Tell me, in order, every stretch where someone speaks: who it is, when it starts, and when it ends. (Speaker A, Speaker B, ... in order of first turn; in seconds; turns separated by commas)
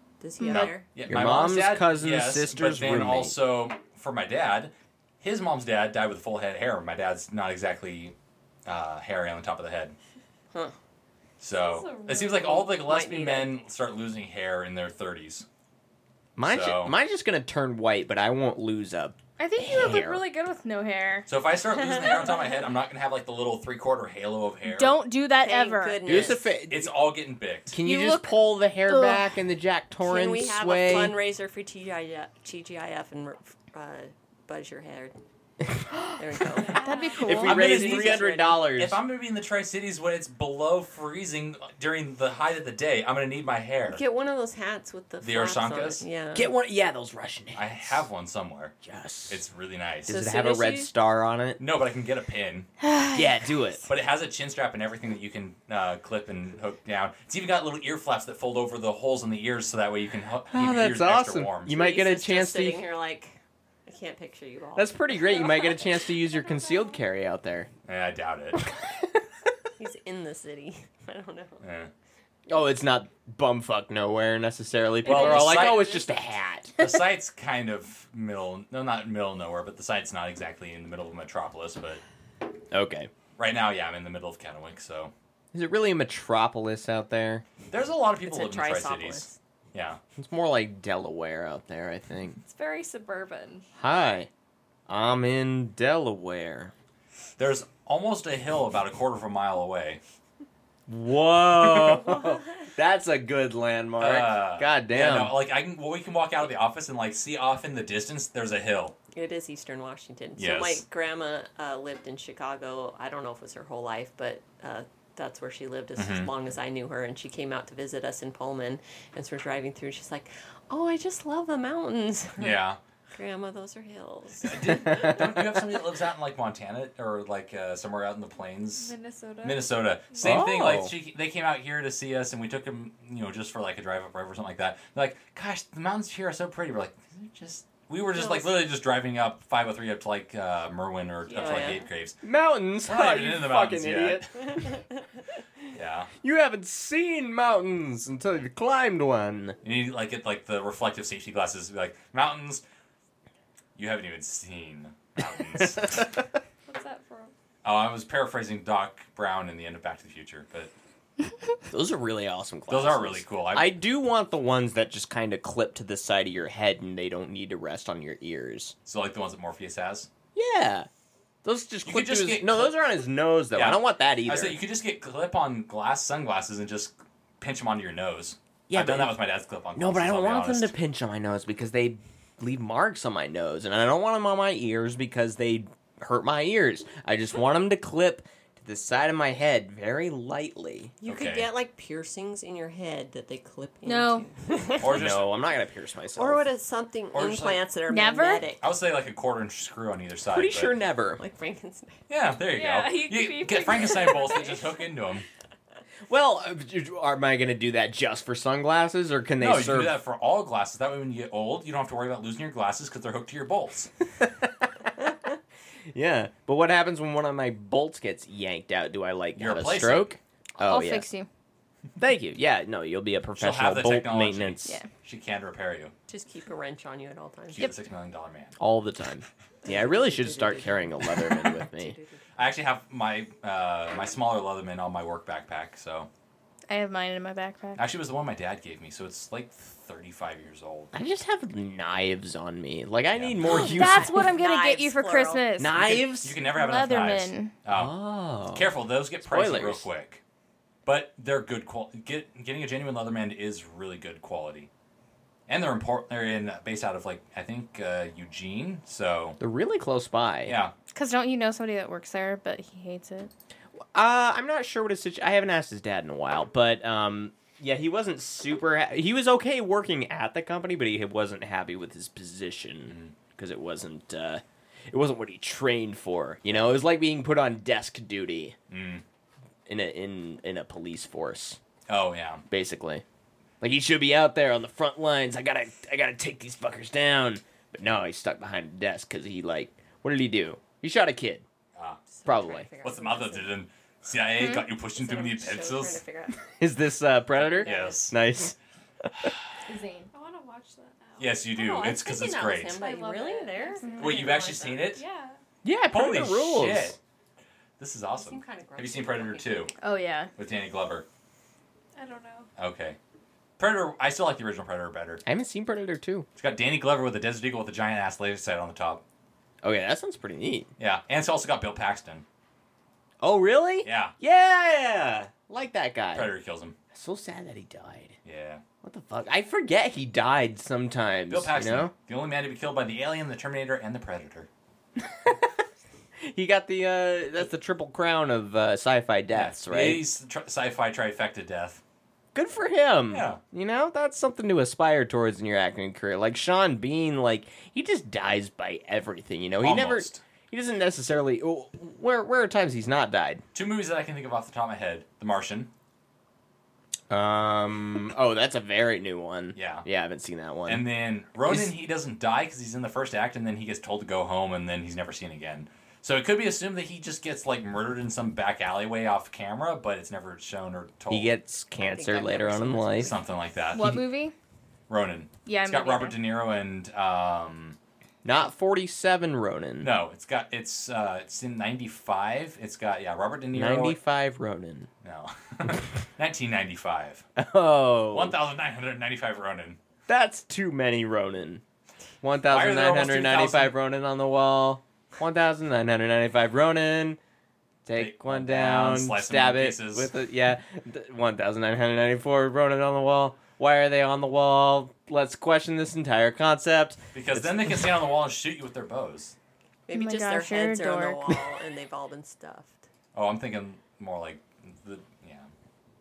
Speaker A: 0.2-0.9, Speaker B: 0.4-0.7, Speaker C: 0.5-10.0, Speaker D: 1.0-3.4, Speaker C: 11.4-15.5, Speaker E: 11.5-12.8, Speaker A: 12.7-13.6, Speaker D: 16.4-20.2, Speaker C: 16.5-16.9, Speaker B: 19.4-21.3, Speaker C: 21.3-25.0, Speaker A: 21.7-22.5, Speaker B: 24.7-26.0, Speaker A: 25.4-26.6, Speaker D: 26.1-26.9, Speaker C: 26.7-27.8, Speaker D: 27.7-31.2, Speaker B: 27.8-28.3, Speaker B: 28.9-29.2, Speaker A: 30.0-35.2, Speaker A: 36.2-36.8, Speaker E: 36.6-37.2, Speaker B: 36.8-37.7, Speaker D: 37.2-39.0, Speaker C: 37.5-44.0, Speaker A: 37.5-38.6, Speaker A: 43.9-46.5, Speaker C: 45.2-46.0, Speaker D: 46.3-48.0, Speaker C: 47.5-48.7, Speaker D: 48.8-49.4, Speaker C: 49.3-50.2, Speaker D: 50.1-51.6, Speaker A: 50.1-50.9, Speaker C: 51.6-52.7, Speaker B: 52.8-53.3, Speaker D: 53.1-53.9, Speaker C: 53.9-61.8, Speaker D: 60.5-62.8, Speaker A: 61.7-65.5, Speaker D: 64.8-67.7, Speaker E: 65.4-67.0, Speaker C: 67.9-68.6, Speaker A: 69.8-71.6, Speaker C: 71.6-71.9, Speaker D: 72.5-77.0, Speaker E: 75.0-76.1, Speaker C: 75.1-76.1, Speaker C: 76.8-82.0, Speaker D: 82.7-83.1, Speaker C: 83.4-85.1, Speaker D: 85.5-87.5, Speaker C: 87.7-90.0, Speaker A: 88.2-89.4, Speaker D: 90.2-92.4, Speaker E: 92.4-93.7, Speaker D: 93.8-94.3, Speaker D: 94.9-96.7, Speaker C: 97.4-100.0, Speaker D: 100.9-105.4, Speaker C: 101.7-102.2, Speaker C: 104.0-109.0, Speaker A: 109.1-122.6, Speaker C: 110.4-110.8, Speaker C: 116.0-116.3, Speaker C: 122.4-122.8, Speaker A: 123.1-124.8, Speaker C: 124.4-142.2, Speaker E: 128.7-130.4, Speaker D: 130.2-130.9, Speaker A: 138.1-138.6, Speaker E: 141.3-141.7, Speaker A: 141.4-141.8, Speaker D: 142.2-144.3, Speaker C: 142.8-144.5, Speaker A: 144.4-145.0, Speaker C: 145.7-146.1, Speaker D: 146.2-149.6, Speaker C: 149.6-152.6, Speaker C: 153.8-156.1, Speaker D: 155.6-156.1, Speaker E: 156.7-157.3, Speaker C: 157.6-160.7, Speaker D: 161.7-168.8, Speaker C: 162.7-163.8, Speaker C: 168.9-170.1, Speaker D: 170.3-170.9, Speaker D: 171.4-174.6, Speaker C: 171.8-172.8, Speaker C: 173.5-180.7, Speaker D: 178.7-179.2, Speaker D: 179.8-191.0, Speaker A: 191.0-195.1, Speaker C: 191.1-191.5, Speaker B: 193.8-194.3, Speaker C: 194.8-195.3, Speaker D: 194.9-196.4, Speaker A: 196.2-198.7, Speaker C: 197.1-197.6, Speaker B: 197.9-198.5, Speaker C: 198.6-200.7, Speaker D: 200.3-201.2, Speaker A: 201.2-202.0, Speaker C: 202.1-205.2, Speaker E: 202.4-205.0, Speaker D: 206.1-210.0, Speaker C: 209.4-213.9, Speaker D: 214.2-214.9, Speaker D: 215.9-221.1, Speaker C: 219.4-220.2, Speaker B: 220.6-221.3, Speaker D: 222.0-224.8, Speaker C: 223.4-225.9, Speaker A: 226.1-227.7, Speaker C: 227.5-228.5, Speaker D: 228.6-232.0, Speaker A: 229.6-232.3, Speaker C: 232.4-236.1, Speaker B: 236.7-237.8, Speaker C: 237.8-240.9, Speaker D: 240.9-244.3, Speaker C: 243.1-244.1, Speaker B: 243.5-245.9, Speaker A: 243.6-245.5, Speaker D: 245.6-246.4, Speaker C: 245.8-247.9, Speaker B: 246.5-247.5, Speaker D: 247.7-249.9, Speaker C: 248.5-250.2, Speaker C: 250.9-254.7, Speaker C: 255.5-259.4, Speaker D: 259.4-260.6, Speaker C: 260.4-260.7, Speaker B: 260.9-263.3, Speaker D: 263.9-278.6, Speaker C: 272.9-273.1, Speaker C: 278.7-279.0, Speaker D: 279.7-281.6, Speaker C: 281.9-282.4, Speaker D: 282.5-283.0, Speaker D: 283.6-291.4, Speaker C: 291.8-292.0, Speaker A: 292.1-293.6, Speaker D: 292.3-292.7, Speaker C: 292.8-296.0, Speaker A: 295.0-296.5, Speaker D: 296.6-299.3, Speaker A: 297.4-298.1, Speaker C: 297.6-298.2, Speaker B: 299.7-300.1, Speaker E: 300.1-305.4, Speaker C: 301.2-302.8, Speaker A: 301.8-305.0, Speaker B: 303.8-304.2, Speaker C: 304.0-305.0, Speaker D: 305.6-307.0, Speaker C: 305.9-307.0, Speaker C: 307.8-309.7, Speaker A: 308.1-309.7, Speaker B: 309.8-310.3, Speaker C: 310.4-311.1, Speaker E: 312.0-312.5, Speaker C: 312.6-313.0, Speaker C: 313.6-315.2, Speaker D: 315.3-316.3, Speaker C: 316.4-319.0, Speaker D: 319.6-320.7, Speaker C: 320.8-322.2, Speaker D: 323.2-326.3, Speaker C: 323.8-324.1, Speaker C: 326.1-326.8, Speaker D: 326.9-328.2, Speaker C: 328.2-328.6, Speaker D: 328.8-331.9, Speaker C: 331.3-334.5, Speaker D: 335.0-335.5, Speaker D: 336.2-340.0, Speaker C: 339.3-341.8, Speaker D: 342.3-353.4, Speaker C: 343.1-343.4, Speaker C: 349.6-350.2, Speaker C: 353.5-355.7, Speaker D: 357.1-360.9, Speaker C: 359.6-359.9, Speaker C: 360.7-371.3, Speaker D: 371.1-373.1, Speaker A: 371.8-373.5, Speaker C: 373.1-374.0, Speaker B: 373.7-374.3, Speaker C: 374.9-377.8, Speaker B: 375.5-376.2, Speaker D: 378.2-379.9, Speaker C: 379.8-384.0, Speaker D: 383.5-384.9, Speaker C: 385.0-387.2, Speaker D: 387.4-388.4, Speaker C: 388.1-389.8, Speaker D: 390.1-391.6, Speaker D: 392.2-397.2, Speaker C: 392.5-393.7, Speaker D: 397.9-407.9, Speaker C: 397.9-400.1, Speaker C: 407.1-409.4, Speaker A: 409.9-412.9, Speaker B: 409.9-411.2, Speaker C: 413.1-415.5